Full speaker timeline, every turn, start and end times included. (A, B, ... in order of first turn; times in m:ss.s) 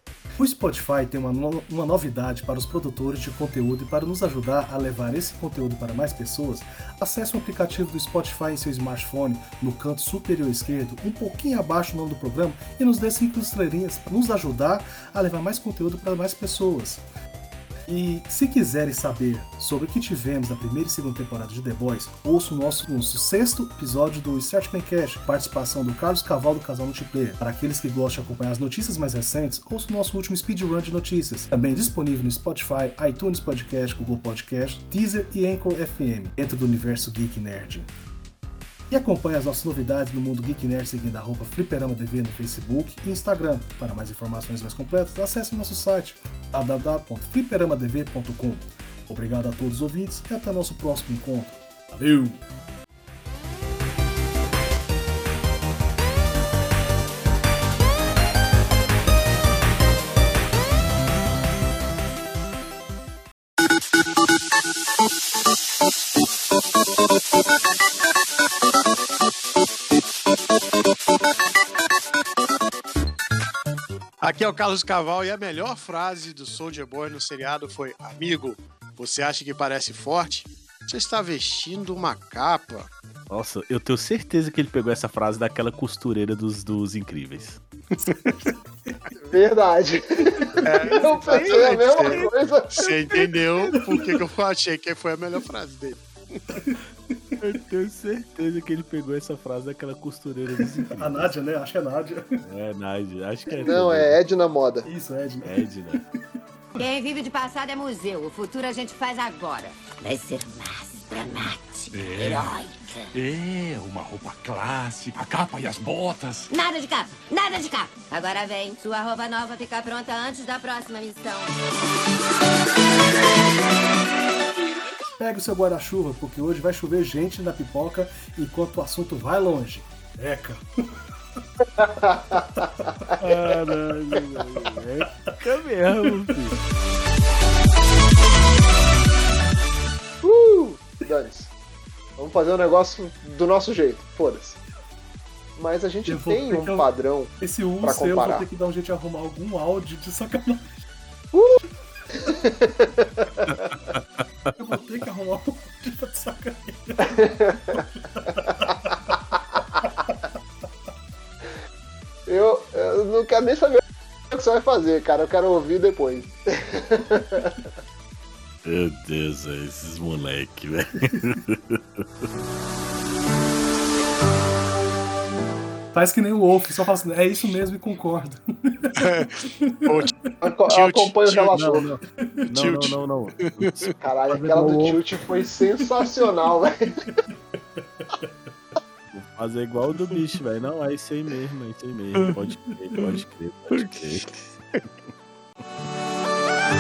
0:00.4-0:17.0 A
0:17.9-0:37.9 A
0:38.9-0:52.4 A
1:14.2-1:22.9 B
1:23.3-1:27.6 C
1:28.0-1:29.0 A
1:28.1-1:28.5 B
1:29.2-1:32.9 D
1:30.6-1:36.6 B
1:31.3-1:32.3 C
1:33.8-1:34.2 A
1:36.7-1:37.4 A
1:37.4-1:41.3 C
1:41.0-1:42.4 A
1:42.4-1:44.2 C
1:43.6-1:44.9 D
1:44.8-1:46.0 A
1:45.4-1:46.0 C
1:46.8-1:53.1 E
1:51.9-1:52.5 F
1:53.1-1:56.5 F
1:56.5-2:01.6 E
2:05.2-2:10.6 A
2:11.8-2:12.7 D
2:13.2-2:16.6 C
2:13.7-2:14.4 A
2:20.2-2:21.5 D
2:22.2-2:24.6 D
2:25.6-2:28.5 D
2:26.1-2:26.9 A
2:27.4-2:30.7 A
2:31.3-2:31.6 D
2:32.1-2:33.8 D
2:34.6-2:37.2 A
2:37.0-2:37.8 D
2:37.7-2:39.2 A
2:42.3-2:47.7 D
2:48.6-2:52.0 C
2:55.9-2:59.0 A
2:59.0-3:00.1 B
2:59.6-3:00.0 A
3:00.4-3:01.9 D
3:00.7-3:01.9 B
3:01.5-3:05.0 C
3:02.5-3:03.0 B
3:03.6-3:04.0 B
3:04.0-3:06.9 D
3:07.8-3:08.3 A
3:09.1-3:14.3 C
3:13.7-3:14.8 B